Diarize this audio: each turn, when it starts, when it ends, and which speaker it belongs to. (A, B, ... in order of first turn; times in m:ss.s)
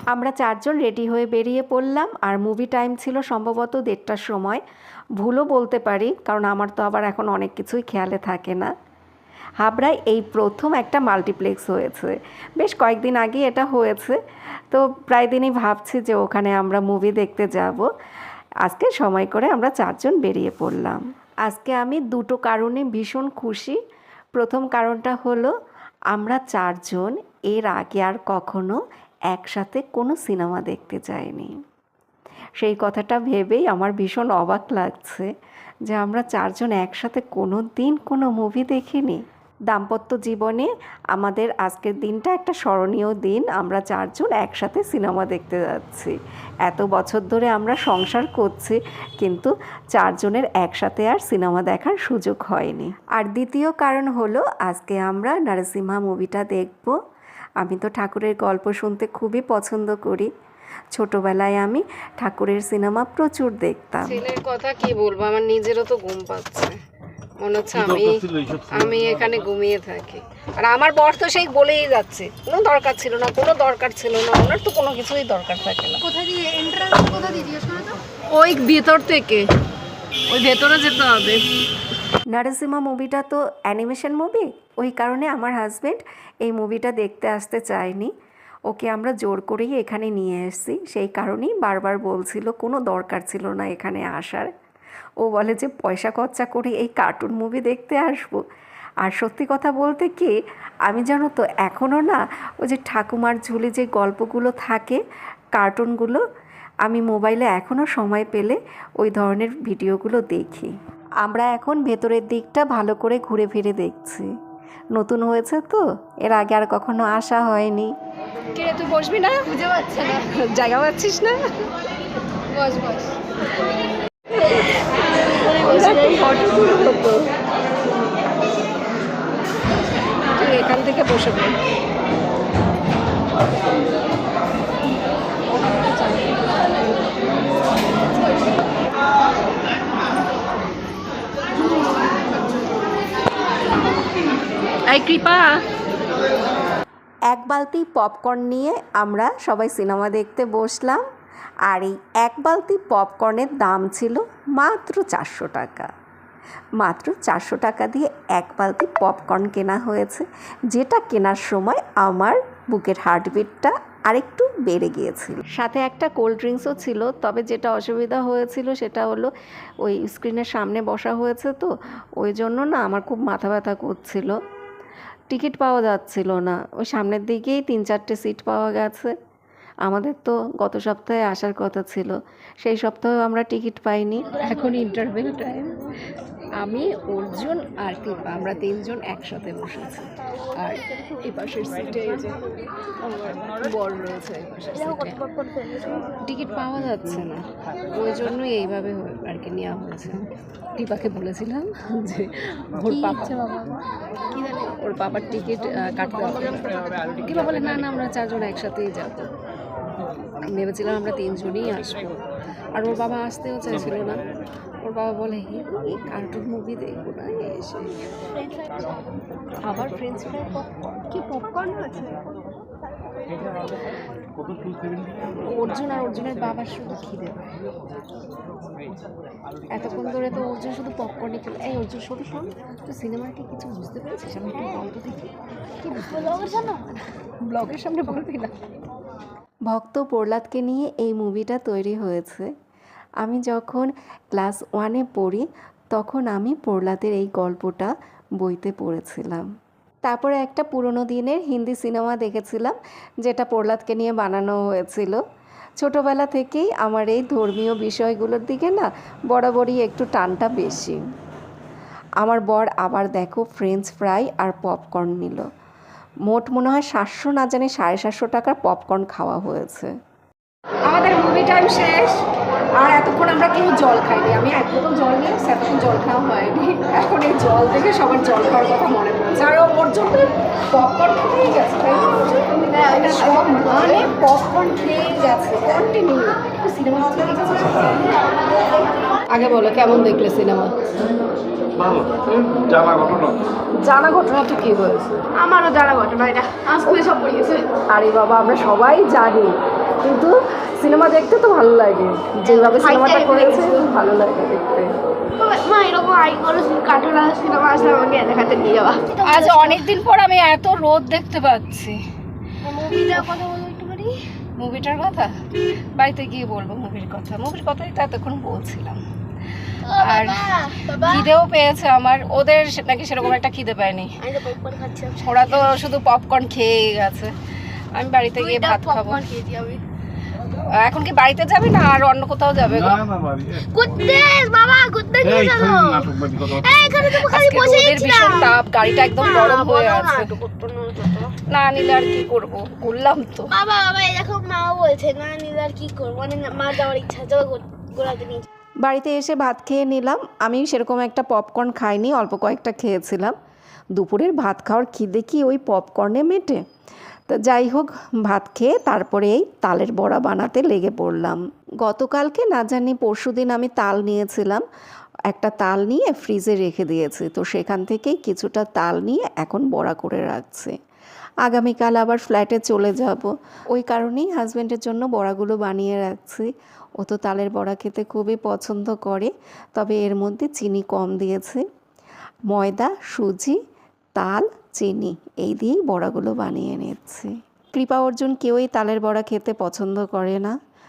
0:00.1-0:04.6 A
0:05.2-0:08.7 A
0:09.6-0:14.2 A
0:14.7-0:17.9 A
0:18.6-0:23.8 A
0:24.3-0:25.5 A
0:26.1-0:28.8 A
0:29.3-0:31.5 A
0:32.6-0:35.3 A
0:35.9-0:46.1 A
0:46.6-0:57.0 A
0:57.6-1:00.3 A
1:00.9-1:04.2 A
1:04.0-1:06.7 B
1:07.4-1:16.1 B
1:18.3-1:19.5 B
1:20.3-1:21.5 B
1:22.3-1:28.1 A
1:28.7-1:34.5 A
1:35.2-1:38.4 A
1:39.0-1:40.3 A
1:40.9-1:45.0 A
1:45.6-1:46.2 A
1:46.8-1:54.3 A
1:54.9-1:57.9 A
1:58.5-1:59.5 B
1:59.5-2:00.1 C
2:00.0-2:01.4 B
2:02.6-2:03.1 C
2:05.4-2:06.4 C
2:05.4-2:07.2 B
2:10.3-2:11.6 B
2:15.5-2:16.6 B
2:24.8-2:25.6 B
2:27.3-2:31.0 A
2:31.7-2:35.9 A
2:36.8-2:49.3 A
2:49.8-2:54.4 A
2:55.3-2:59.1 A
2:59.8-3:04.4 A
3:04.4-3:05.8 B
3:06.6-3:12.4 B
3:13.0-3:15.3 B
3:15.3-3:16.2 C
3:16.2-3:23.8 B
3:24.4-3:29.3 B
3:30.4-3:32.2 B
3:32.8-3:34.2 B
3:34.8-3:38.0 B
3:39.6-3:42.1 B
3:45.5-3:47.4 B
3:49.8-3:55.3 B
3:54.5-3:54.8 C
3:55.9-3:56.4 B
3:56.0-3:56.9 C
3:57.4-3:58.5 B
3:59.7-4:02.5 A
4:03.2-4:09.4 A
4:10.0-4:15.2 A
4:15.8-4:21.0 A
4:22.2-4:25.4 A
4:26.3-4:29.9 A
4:30.9-4:32.2 B
4:32.8-4:48.0 B
4:42.6-4:44.0 C
4:49.3-4:50.7 B
4:53.8-4:55.2 B
4:55.3-4:57.8 C
4:57.9-5:04.9 B
5:02.4-5:03.9 C
5:05.4-5:09.8 C
5:09.2-5:12.0 B
5:12.6-5:14.1 C
5:12.9-5:13.9 B
5:14.6-5:15.3 B
5:15.9-5:19.0 B
5:19.8-5:21.3 C
5:20.0-5:24.2 B
5:24.2-5:25.7 C
5:25.2-5:27.4 B
5:27.9-5:29.2 B
5:28.4-5:29.8 C
5:30.7-5:33.0 B
5:33.6-5:41.3 C
5:37.1-5:40.3 B
5:41.5-5:43.5 B
5:43.5-5:48.4 C
5:48.8-5:53.3 A
5:54.0-5:56.6 A
5:57.3-6:04.6 A
6:05.3-6:10.7 A
6:11.4-6:16.5 A
6:17.0-6:21.6 A
6:22.5-6:23.6 A
6:24.1-6:30.6 A